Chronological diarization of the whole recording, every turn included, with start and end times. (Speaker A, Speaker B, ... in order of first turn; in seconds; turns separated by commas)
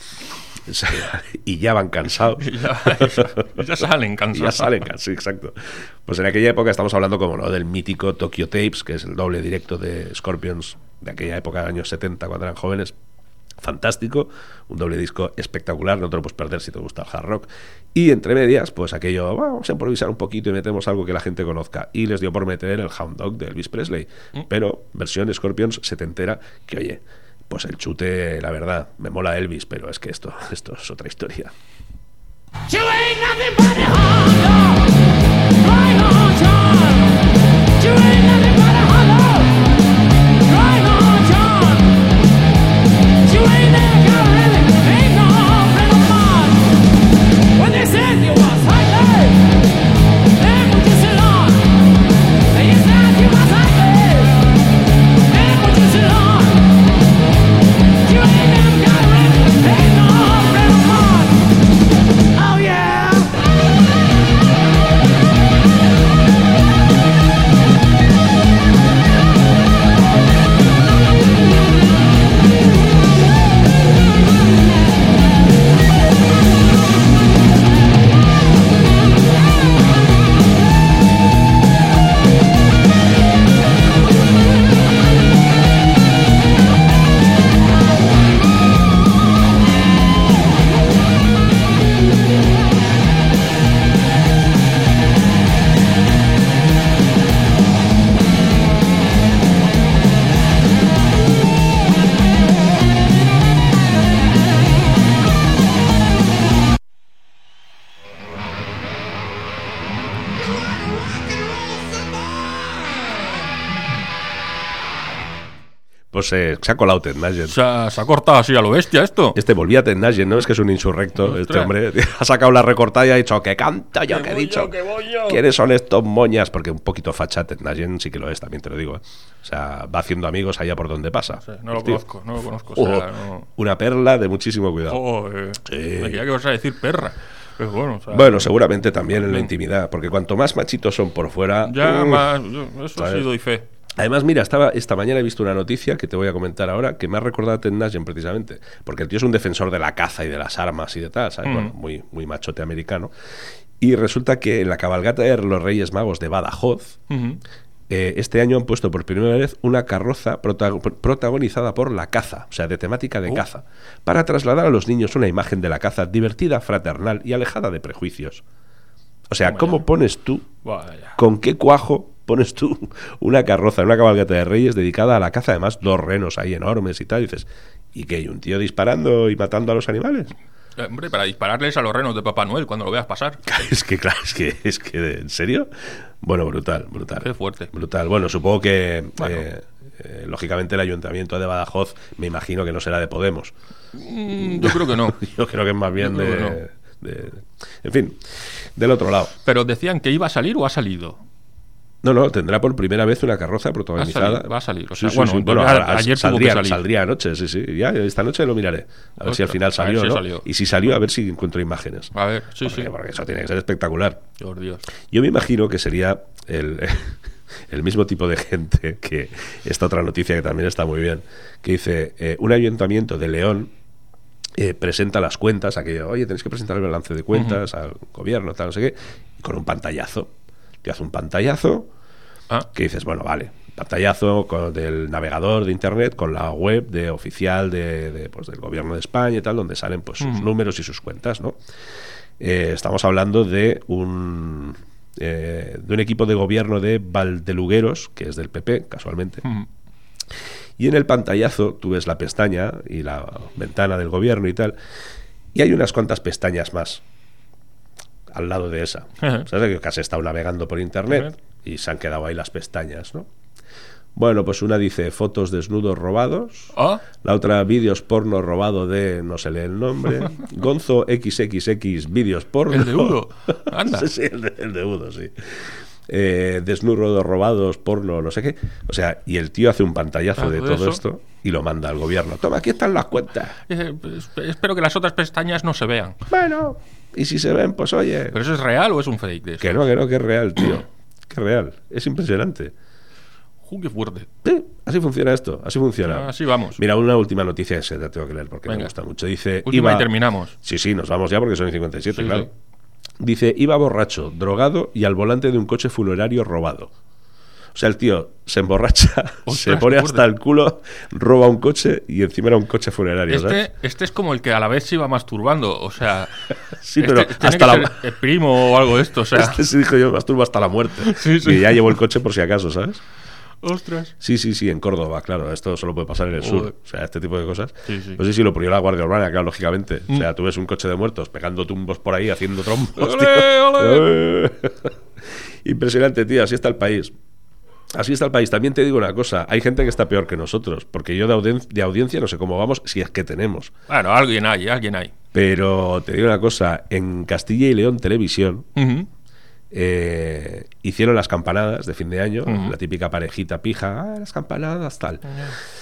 Speaker A: 0.7-3.6, Speaker B: 2.4-4.8, Speaker A: 4.3-12.9, Speaker A: 13.6-31.5, Speaker C: 32.7-34.9, Speaker C: 35.6-37.2, Speaker C: 37.8-39.5, Speaker C: 40.5-41.9, Speaker C: 43.3-46.6, Speaker C: 47.5-49.5, Speaker C: 50.4-51.6, Speaker C: 52.5-54.3, Speaker C: 55.3-56.6, Speaker C: 58.0-61.4, Speaker C: 62.4-63.3, Speaker A: 116.1-117.6, Speaker B: 117.4-119.4, Speaker A: 119.3-124.7, Speaker B: 121.2-121.7, Speaker B: 124.1-125.4, Speaker A: 125.3-132.0, Speaker B: 131.4-133.5, Speaker A: 132.7-135.0, Speaker B: 134.9-138.5, Speaker A: 135.6-136.2, Speaker A: 138.1-142.3, Speaker B: 139.2-139.5, Speaker B: 141.6-143.6, Speaker A: 142.9-143.3, Speaker A: 144.0-153.1, Speaker B: 151.4-151.7, Speaker A: 153.8-157.0, Speaker B: 157.1-157.4, Speaker A: 157.9-168.4, Speaker A: 169.3-170.5, Speaker B: 169.4-169.8, Speaker B: 170.6-171.2, Speaker A: 171.2-180.3, Speaker B: 180.8-183.4, Speaker A: 183.4-185.7, Speaker A: 186.2-193.5, Speaker B: 187.2-187.7, Speaker B: 189.2-189.4, Speaker B: 193.9-195.2, Speaker A: 194.4-198.2, Speaker B: 196.0-196.6, Speaker A: 198.8-199.3, Speaker B: 199.4-201.2, Speaker A: 202.0-212.1, Speaker B: 204.0-206.8, Speaker B: 209.2-210.4, Speaker B: 212.1-212.9, Speaker A: 212.6-214.2, Speaker B: 214.4-214.8, Speaker A: 215.1-223.7, Speaker A: 224.6-230.3, Speaker B: 227.3-227.6, Speaker A: 230.8-231.9, Speaker A: 232.7-241.6, Speaker B: 240.2-240.5, Speaker A: 242.4-249.4, Speaker A: 250.8-254.8, Speaker A: 255.5-257.0, Speaker A: 258.3-263.3, Speaker B: 259.2-259.4, Speaker A: 264.1-283.5, Speaker B: 266.7-267.0, Speaker B: 272.7-274.1, Speaker B: 280.4-281.0, Speaker B: 283.7-286.2, Speaker A: 286.3-288.4, Speaker B: 288.3-289.8, Speaker A: 289.6-292.7, Speaker B: 293.6-294.3, Speaker A: 294.4-300.1, Speaker B: 296.1-296.8, Speaker B: 298.7-298.9, Speaker B: 299.6-300.5, Speaker A: 300.6-302.5, Speaker B: 302.1-302.5, Speaker A: 303.2-306.9, Speaker A: 307.7-313.6, Speaker B: 309.5-310.2, Speaker B: 313.3-316.3, Speaker A: 316.8-318.0, Speaker B: 317.0-319.6, Speaker A: 319.3-323.0, Speaker B: 321.0-322.0, Speaker B: 323.6-324.1, Speaker A: 324.2-334.9, Speaker B: 326.4-326.7, Speaker B: 327.9-328.2, Speaker B: 333.0-334.1, Speaker A: 335.6-337.1, Speaker A: 337.9-343.7, Speaker B: 343.9-345.1, Speaker A: 345.3-348.7, Speaker B: 348.8-349.1, Speaker A: 349.7-355.2, Speaker B: 352.5-352.7